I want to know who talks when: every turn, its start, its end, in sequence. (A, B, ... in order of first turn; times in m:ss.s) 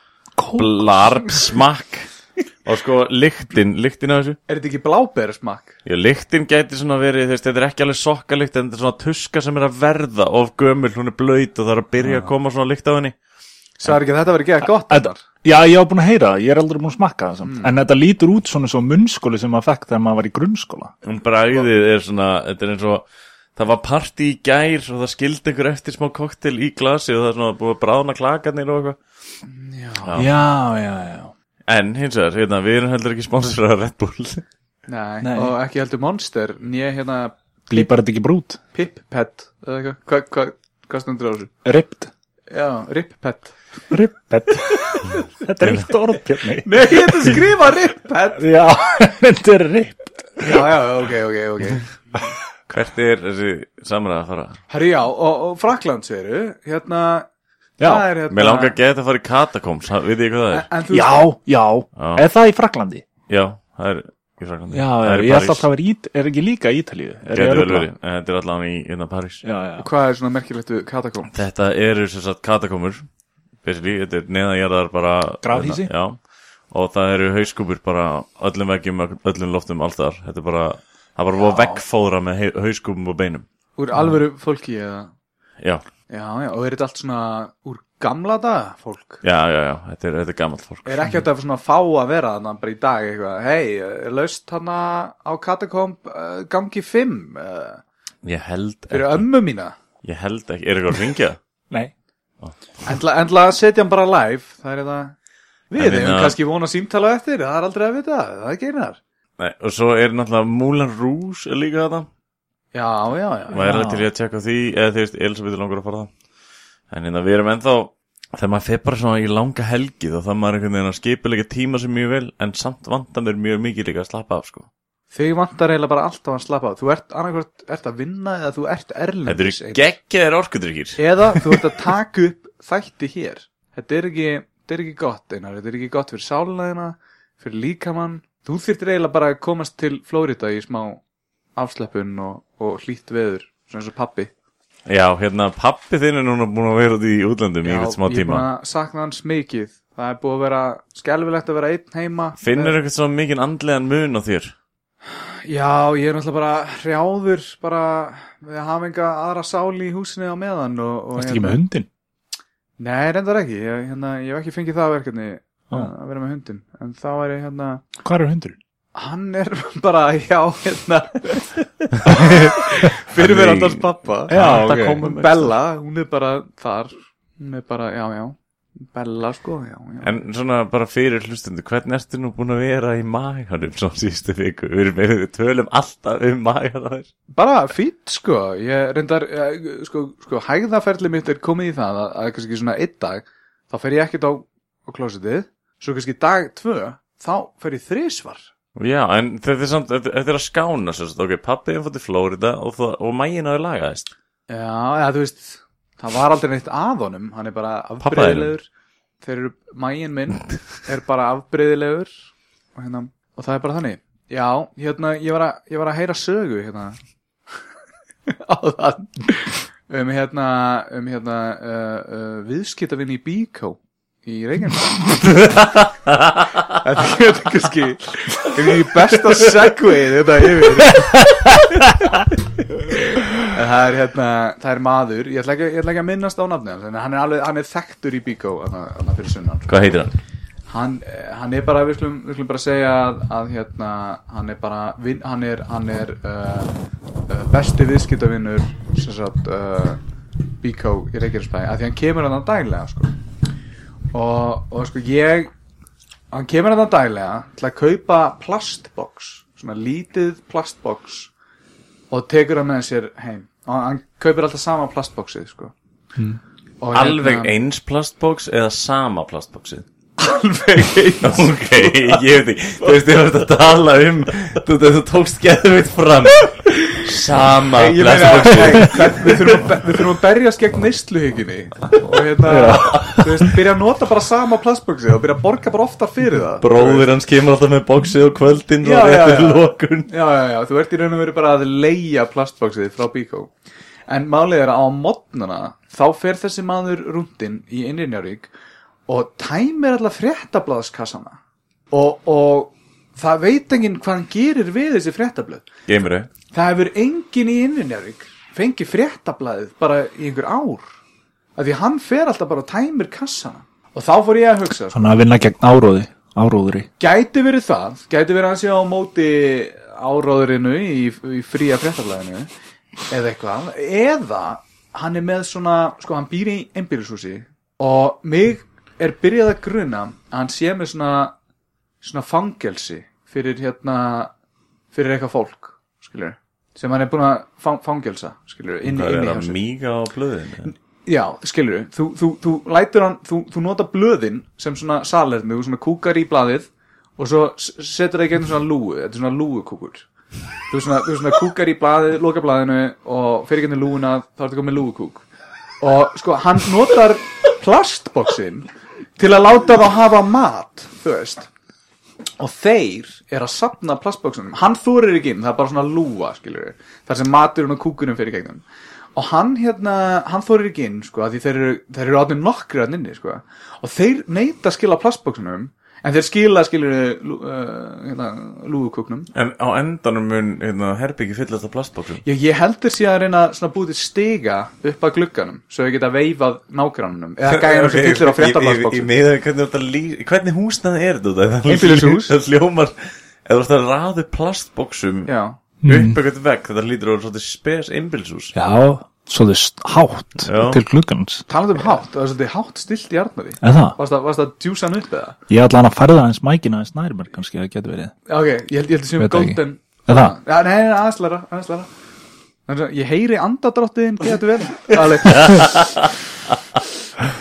0:00.4-0:00.8 A
0:00.6-0:02.1 B
0:02.6-0:04.4 B
0:04.5-0:05.7 C
0:05.8-0:13.2 B
0:12.0-0:12.3 A
0:13.8-0:15.2 C
0:14.8-0:20.9 A
0:17.4-0:17.7 C
0:21.0-0:29.0 B
0:29.4-0:30.2 C
0:30.0-0:30.3 B
0:30.2-0:31.3 A
0:31.7-0:34.4 B
0:34.9-0:37.9 C
0:35.2-0:35.6 A
0:37.7-0:38.6 A
0:38.7-0:41.5 C
0:41.6-0:42.1 A
0:42.5-0:43.6 C
0:43.9-0:47.5 A
0:45.6-0:45.9 B
0:46.6-0:48.5 C
0:48.4-0:50.7 A
0:50.4-0:51.9 C
0:52.7-0:54.6 B
0:54.7-0:57.3 C
0:57.8-0:58.1 A
0:57.8-0:58.8 C
0:58.3-1:00.7 B
1:00.5-1:01.3 C
1:00.9-1:03.0 A
1:02.0-1:02.2 B
1:03.3-1:05.7 B
1:04.7-1:07.9 A
1:07.3-1:09.4 B
1:09.4-1:09.9 A
1:09.8-1:11.3 C
1:11.3-1:13.0 B
1:13.6-1:16.2 B
1:15.4-1:15.9 A
1:16.7-1:23.5 B
1:21.4-1:21.8 C
1:23.8-1:25.1 C
1:26.1-1:29.2 C
1:29.2-1:31.1 B
1:30.9-1:37.8 C
1:38.2-1:39.3 B
1:38.9-1:39.8 C
1:40.0-1:41.4 B
1:42.8-1:45.2 C
1:45.7-1:49.0 C
1:45.8-1:46.4 B
1:49.4-1:52.1 B
1:52.7-1:53.7 C
1:53.5-1:54.1 A
1:53.5-1:56.1 B
1:56.9-2:04.7 B
2:05.1-2:09.9 C
2:09.3-2:11.4 B
2:11.0-2:21.0 C
2:21.6-2:24.3 C
2:24.9-2:28.5 B
2:27.6-2:32.7 C
2:32.4-2:34.5 B
2:35.1-2:41.6 C
2:41.2-2:41.9 A
2:42.8-2:47.8 C
2:48.0-2:48.6 A
2:49.0-3:00.2 C
2:53.1-2:55.5 B
2:54.3-2:55.0 A
3:00.0-3:07.1 B
3:07.3-3:18.5 C
3:18.8-3:24.1 B
3:24.5-3:28.7 C
3:28.0-3:28.5 B
3:29.2-3:32.1 C
3:32.8-3:37.0 C
3:38.3-3:45.7 C
3:46.7-3:51.2 C
3:53.4-3:59.7 C
3:59.7-4:00.1 B
4:00.7-4:06.7 C
4:07.3-4:10.0 C
4:10.6-4:13.1 C
4:14.1-4:15.5 C
4:16.3-4:21.3 C
4:22.1-4:25.7 C
4:26.8-4:27.5 C
4:26.9-4:29.8 B
4:30.2-4:32.2 C
4:31.2-4:39.7 B
4:37.8-4:47.1 C
4:38.6-4:39.0 A
4:42.5-4:43.5 A
4:42.7-4:43.1 B
4:46.6-4:50.1 B
4:48.8-4:53.5 C
4:54.1-4:58.5 C
4:59.1-5:01.4 C
5:01.9-5:05.7 C
5:05.9-5:06.3 B
5:06.5-5:10.9 C
5:11.6-5:15.2 C
5:14.9-5:16.9 A
5:17.0-5:22.5 C
5:23.1-5:31.3 C
5:32.0-5:34.3 C
5:34.9-5:39.6 C
5:38.8-5:40.7 B
5:40.7-5:50.0 C
5:50.7-5:55.2 C
5:55.8-6:01.5 C
6:02.4-6:08.6 C
6:09.2-6:19.3 C
6:19.3-6:22.2 B
6:22.2-6:29.1 C
6:27.5-6:33.0 B
6:31.7-6:32.3 C
6:33.5-6:35.3 B
6:35.3-6:35.6 C
6:35.8-6:36.2 A
6:35.8-6:38.6 B
6:38.5-6:41.4 A
6:40.5-6:40.8 B
6:41.5-6:45.4 C
6:43.6-6:44.0 A
6:45.5-6:48.1 A
6:48.3-6:51.9 C
6:49.2-6:50.4 A
6:52.7-6:55.9 C
6:55.3-6:56.1 B